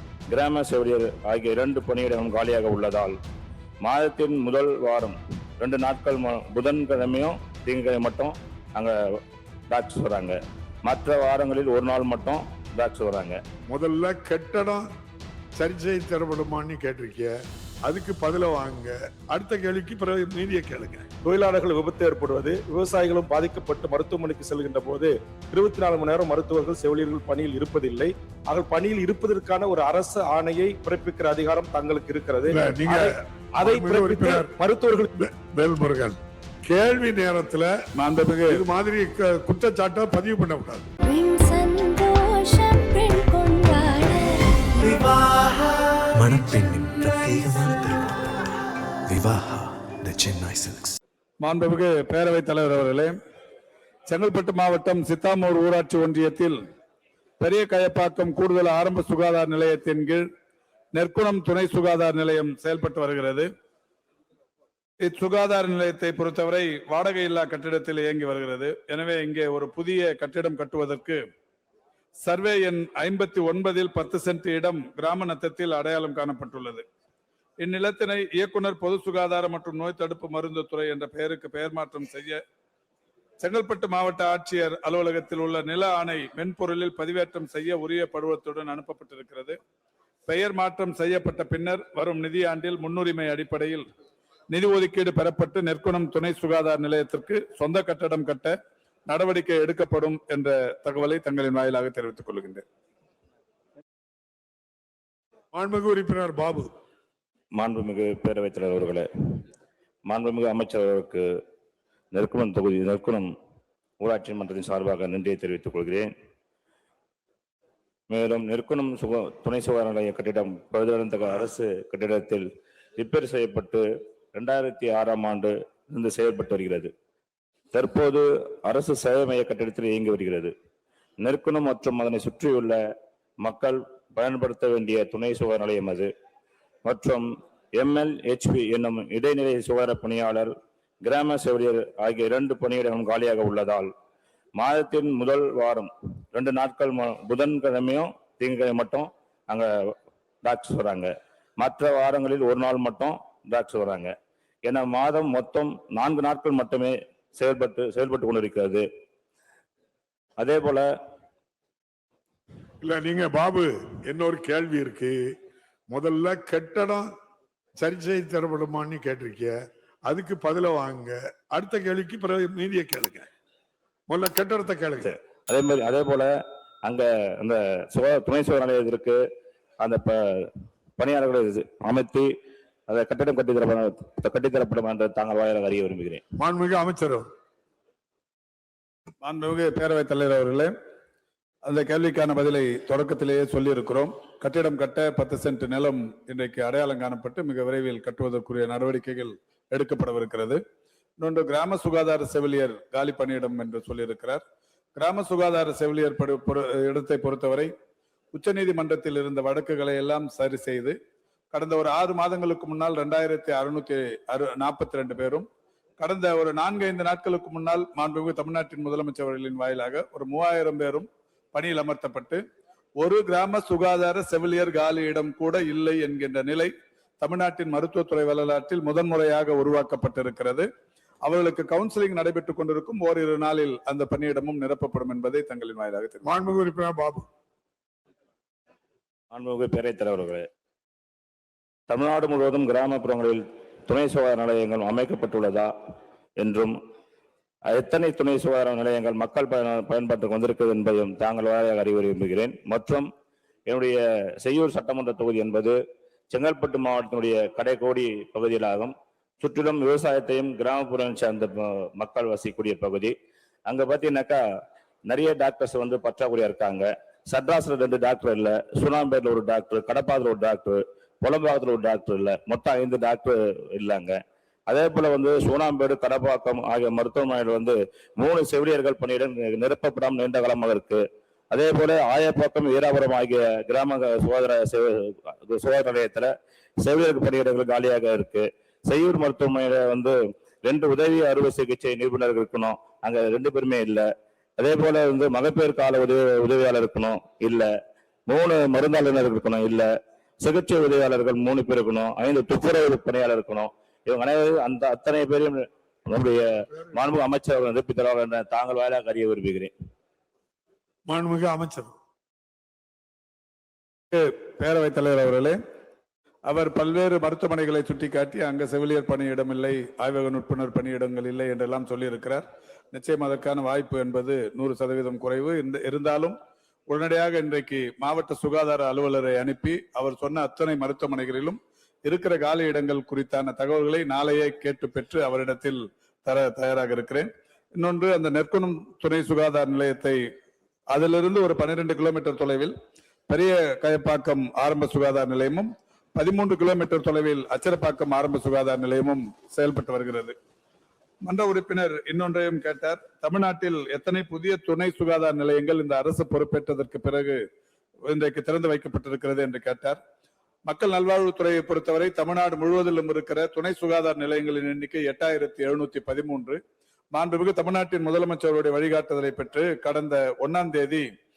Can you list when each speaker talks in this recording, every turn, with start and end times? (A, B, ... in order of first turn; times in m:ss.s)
0:00.3-0:03.2 A
0:03.8-0:08.9 A
0:09.7-0:13.4 A
0:13.7-0:14.8 B
0:15.6-0:17.3 B
0:17.8-0:21.0 B
0:21.2-0:35.1 C
0:32.5-0:34.5 B
0:35.2-0:37.7 B
0:38.0-0:38.6 D
0:38.5-0:40.9 B
0:41.0-0:44.9 E
0:46.2-0:48.4 F
0:49.1-0:51.0 F
0:51.4-0:53.1 D
0:54.1-0:56.6 D
0:57.4-1:00.2 D
1:00.9-1:03.4 D
1:05.0-1:11.2 D
1:12.2-1:16.8 D
1:17.6-1:22.4 D
1:23.4-1:29.6 D
1:30.2-1:33.8 D
1:34.5-1:38.5 D
1:39.1-1:42.6 D
1:45.5-1:46.7 B
1:47.5-1:49.1 A
1:50.1-1:51.2 A
1:52.1-1:53.3 A
1:54.0-1:56.1 A
1:58.1-2:02.4 A
2:03.0-2:06.9 A
2:07.7-2:10.5 A
2:11.2-2:12.8 A
2:13.4-2:16.1 A
2:16.8-2:20.5 A
2:21.0-2:23.9 A
2:24.6-2:29.7 A
2:30.4-2:34.1 A
2:34.6-2:38.8 A
2:40.4-2:40.9 A
2:42.8-2:45.2 B
2:45.9-2:47.1 B
2:47.8-2:49.5 B
2:50.0-2:53.3 B
2:54.1-2:55.1 B
2:55.0-2:56.3 A
2:56.8-2:59.2 A
2:59.8-3:02.3 A
3:02.9-3:06.2 A
3:06.4-3:07.2 B
3:09.2-3:10.7 D
3:11.6-3:20.6 D
3:21.2-3:24.4 D
3:25.0-3:27.7 D
3:28.3-3:31.0 D
3:31.5-3:35.4 D
3:36.0-3:42.4 D
3:43.0-3:50.6 D
3:51.2-3:56.2 D
3:56.2-3:57.2 B
3:59.3-4:00.4 A
4:01.9-4:05.7 A
4:06.4-4:06.8 A
4:07.7-4:13.1 A
4:13.7-4:15.8 A
4:16.3-4:23.1 A
4:23.7-4:24.4 A
4:25.1-4:34.2 A
4:34.7-4:46.3 A
4:46.8-4:57.7 A
4:58.3-4:59.9 A
5:00.4-5:09.7 A
5:11.1-5:11.9 B
5:14.1-5:15.6 D
5:16.4-5:26.3 D
5:26.9-5:40.2 D
5:40.9-5:42.7 D
5:43.3-5:50.3 D
5:51.2-5:57.4 D
5:58.1-6:00.0 D
6:00.6-6:06.6 D
6:07.1-6:11.0 D